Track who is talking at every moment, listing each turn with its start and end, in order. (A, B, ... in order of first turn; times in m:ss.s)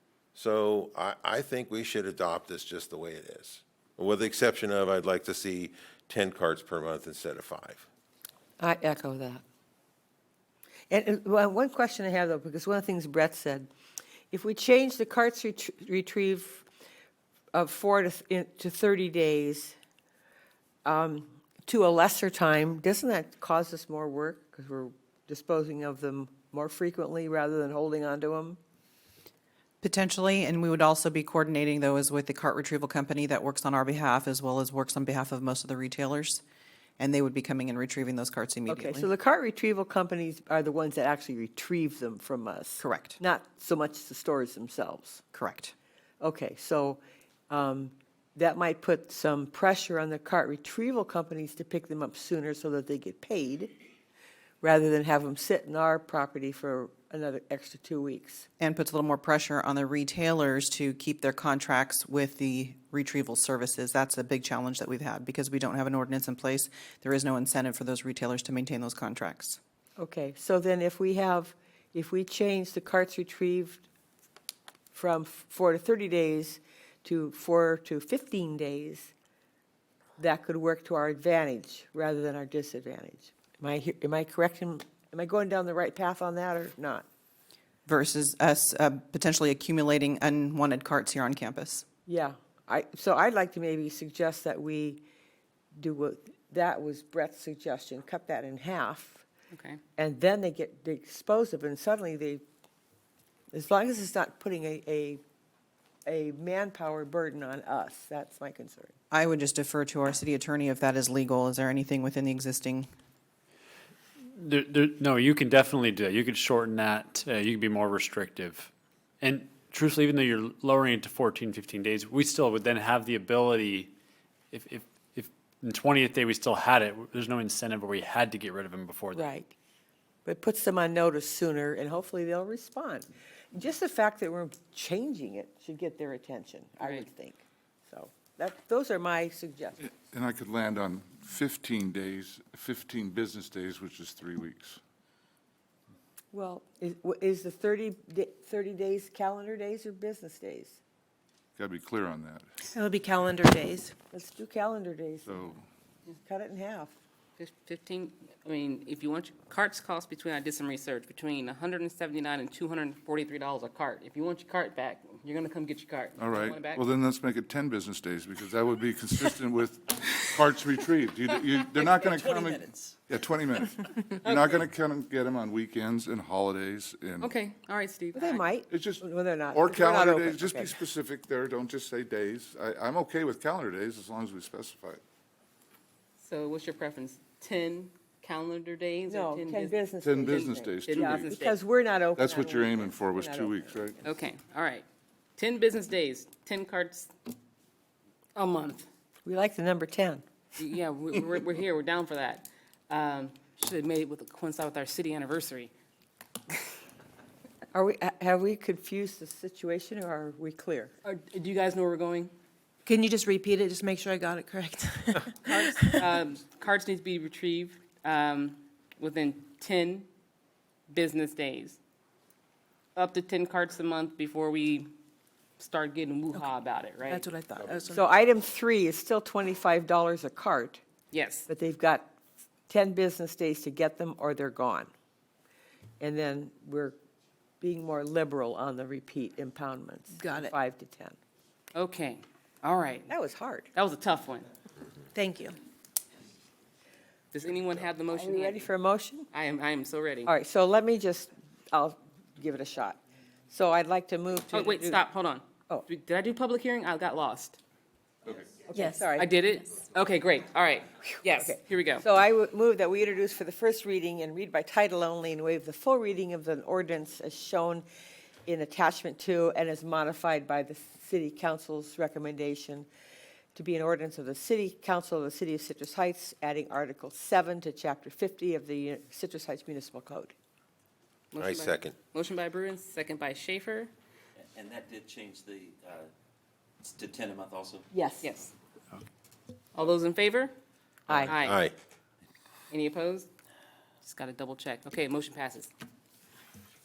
0:00.4-0:07.9 A
0:08.6-0:09.4 B
0:10.9-0:13.7 B
0:14.3-0:16.7 B
0:17.5-0:19.8 B
0:20.8-0:28.6 B
0:29.8-0:36.4 C
0:37.0-0:39.1 C
0:38.7-0:45.2 B
0:42.8-0:43.2 C
0:45.3-0:45.7 C
0:46.2-0:53.7 B
0:54.6-0:58.5 B
0:58.6-1:09.6 C
1:10.0-1:13.9 B
1:14.9-1:19.1 B
1:20.2-1:27.1 B
1:27.9-1:31.8 C
1:32.1-1:35.0 B
1:35.8-1:39.2 B
1:39.5-1:39.8 D
1:40.0-1:42.4 B
1:43.5-1:45.2 B
1:46.1-1:48.9 B
1:49.1-1:52.9 C
1:54.3-1:58.7 E
1:59.2-2:03.9 E
2:04.5-2:09.3 E
2:09.1-2:09.5 B
2:10.2-2:19.8 B
2:19.8-2:24.8 F
2:26.3-2:30.8 B
2:31.6-2:32.5 F
2:32.6-2:34.0 G
2:34.1-2:35.5 B
2:35.3-2:35.6 F
2:36.2-2:37.0 B
2:37.4-2:46.9 D
2:46.2-2:57.3 F
2:52.0-2:52.5 H
2:54.2-2:54.6 D
2:57.2-2:58.4 D
2:58.1-3:00.8 B
2:58.7-3:05.0 F
3:06.2-3:09.7 D
3:09.1-3:14.0 B
3:10.0-3:11.3 F
3:10.3-3:11.6 D
3:12.2-3:14.0 F
3:14.0-3:14.8 D
3:15.4-3:17.1 D
3:18.4-3:18.9 D
3:19.2-3:20.2 B
3:20.6-3:25.7 D
3:27.7-3:30.9 B
3:31.0-3:32.3 D
3:32.9-3:36.1 G
3:35.7-3:40.1 D
3:40.9-3:41.8 D
3:43.0-3:44.9 D
3:45.6-3:47.3 D
3:47.1-3:48.0 G
3:47.9-3:50.8 B
3:51.1-3:51.5 D
3:51.5-3:52.1 B
3:52.7-3:54.9 B
3:56.0-3:57.0 B
3:57.6-4:01.2 B
4:00.1-4:00.5 G
4:01.8-4:03.1 D
4:03.1-4:03.7 B
4:03.8-4:04.5 D
4:05.1-4:05.6 G
4:07.3-4:08.7 D
4:08.1-4:09.3 B
4:09.3-4:10.3 D
4:10.3-4:13.0 B
4:13.5-4:15.0 B
4:14.5-4:17.6 D
4:18.7-4:19.3 B
4:18.7-4:19.1 G
4:19.2-4:22.0 D
4:21.2-4:27.9 B
4:28.4-4:32.9 B
4:33.6-4:40.3 B
4:41.3-4:43.9 D
4:41.4-4:41.9 A
4:44.6-4:46.1 H
4:46.8-4:47.8 H
4:47.9-4:48.3 B
4:48.2-4:48.5 D
4:49.8-4:50.5 D
4:51.1-4:51.4 B
4:51.2-4:51.6 D
4:51.4-4:51.7 A
4:52.7-4:53.3 D
4:54.0-4:55.7 D